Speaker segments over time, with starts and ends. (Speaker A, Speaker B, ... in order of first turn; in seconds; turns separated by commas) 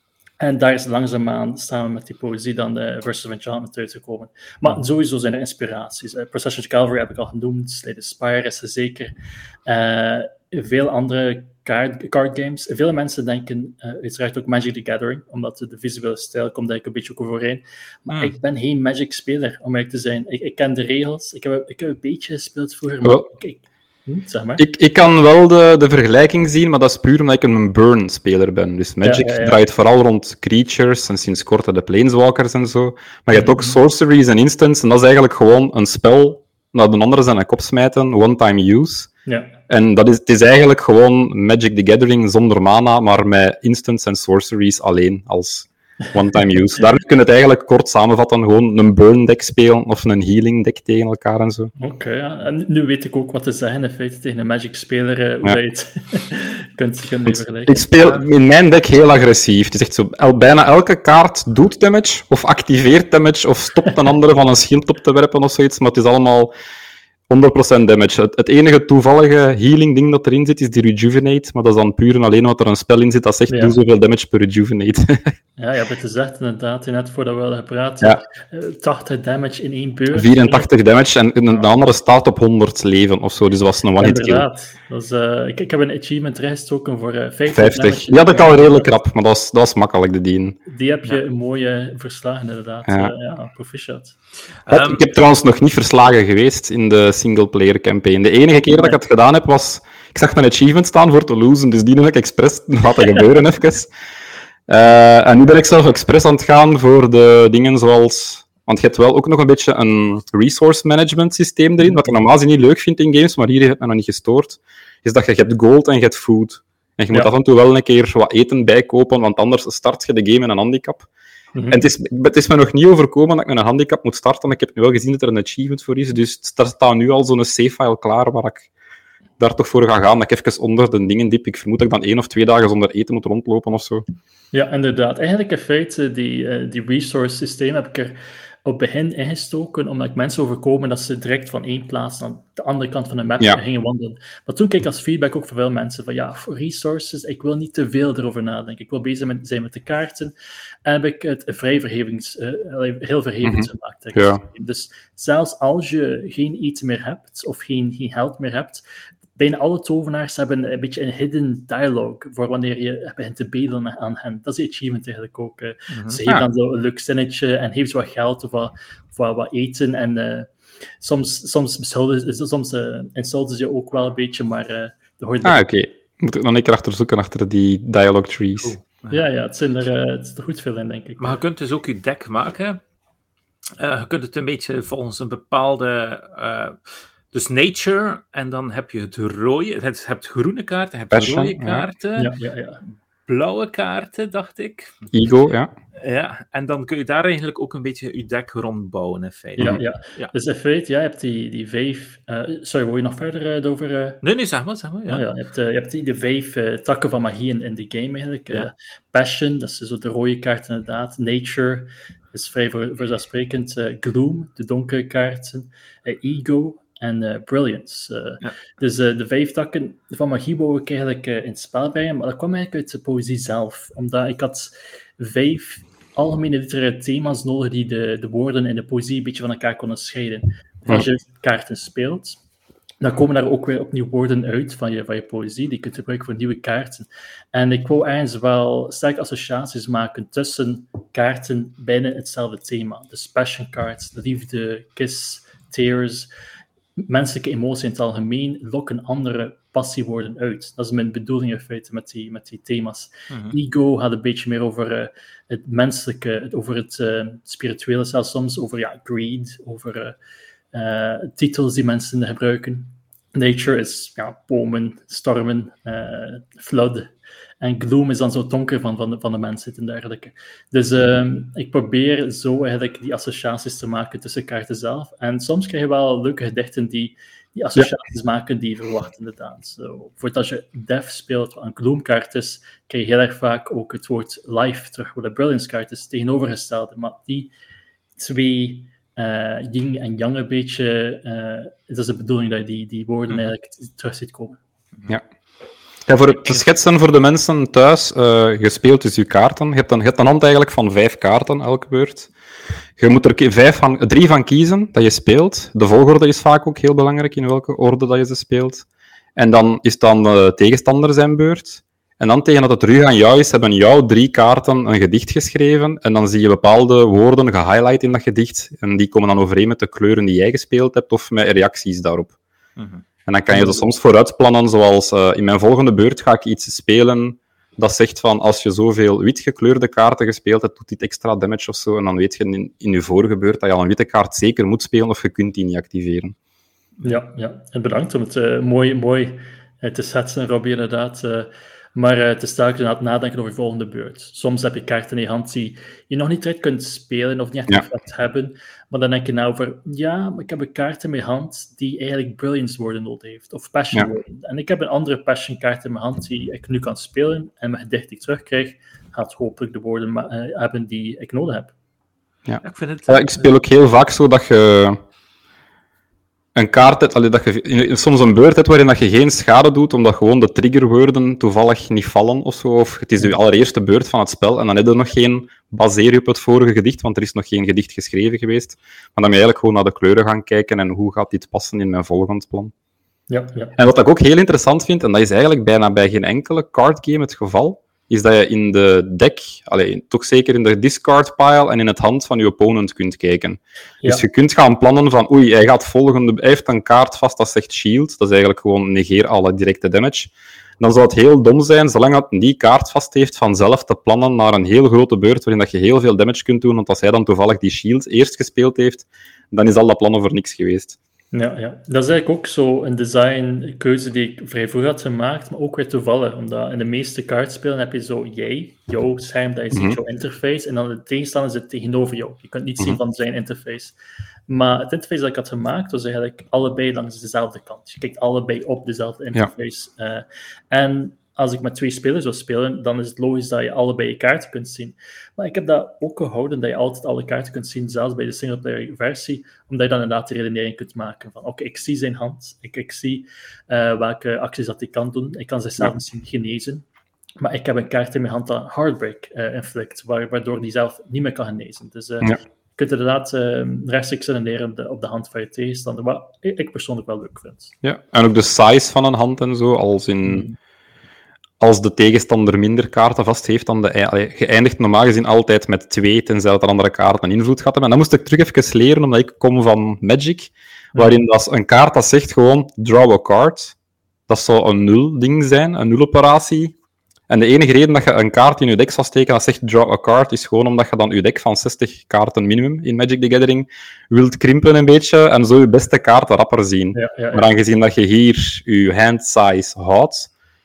Speaker A: 0.4-9.1, Speaker A: 9.7-24.6, Speaker B: 24.6-39.1, Speaker A: 29.0-29.6, Speaker A: 33.4-33.8, Speaker A: 39.3-39.5, Speaker B: 39.7-51.7, Speaker A: 51.8-58.3, Speaker B: 57.3-66.5, Speaker B: 67.3-75.3, Speaker A: 73.5-73.8, Speaker A: 75.6-80.7, Speaker B: 80.1-84.5, Speaker A: 84.0-88.9, Speaker B: 87.5-90.6, Speaker A: 90.7-94.2, Speaker B: 92.9-93.1, Speaker C: 94.7-95.1, Speaker B: 94.7-103.9, Speaker B: 104.7-121.1, Speaker A: 121.5-121.8, Speaker B: 121.7-128.7, Speaker B: 129.4-134.0, Speaker A: 134.5-150.3, Speaker A: 150.8-158.8, Speaker B: 153.4-154.4, Speaker A: 159.4-175.7, Speaker C: 165.9-166.2, Speaker B: 175.4-178.8, Speaker C: 178.6-179.2, Speaker A: 179.1-181.4, Speaker C: 181.2-182.8, Speaker C: 183.8-192.3, Speaker B: 191.1-191.9, Speaker A: 192.2-192.8, Speaker C: 193.3-195.1, Speaker B: 195.1-195.7, Speaker C: 196.0-200.3, Speaker A: 199.6-204.2, Speaker C: 204.2-205.3, Speaker A: 205.1-232.4, Speaker A: 233.0-246.3, Speaker A: 247.0-260.2, Speaker A: 260.7-287.5, Speaker A: 288.2-294.6, Speaker B: 296.1-302.3, Speaker B: 303.0-308.9, Speaker B: 309.4-322.3, Speaker C: 322.8-323.1, Speaker B: 323.3-336.4, Speaker A: 337.0-361.7, Speaker B: 362.5-365.0, Speaker C: 362.6-363.5, Speaker B: 366.6-382.7, Speaker A: 383.3-383.8, Speaker B: 383.8-411.0, Speaker A: 411.3-423.9, Speaker B: 419.7-420.0, Speaker A: 424.5-446.9, Speaker A: 447.4-457.7, Speaker B: 457.8-460.5, Speaker A: 460.3-460.6, Speaker B: 461.6-473.8, Speaker B: 474.3-476.8, Speaker B: 477.3-490.3, Speaker A: 486.9-487.5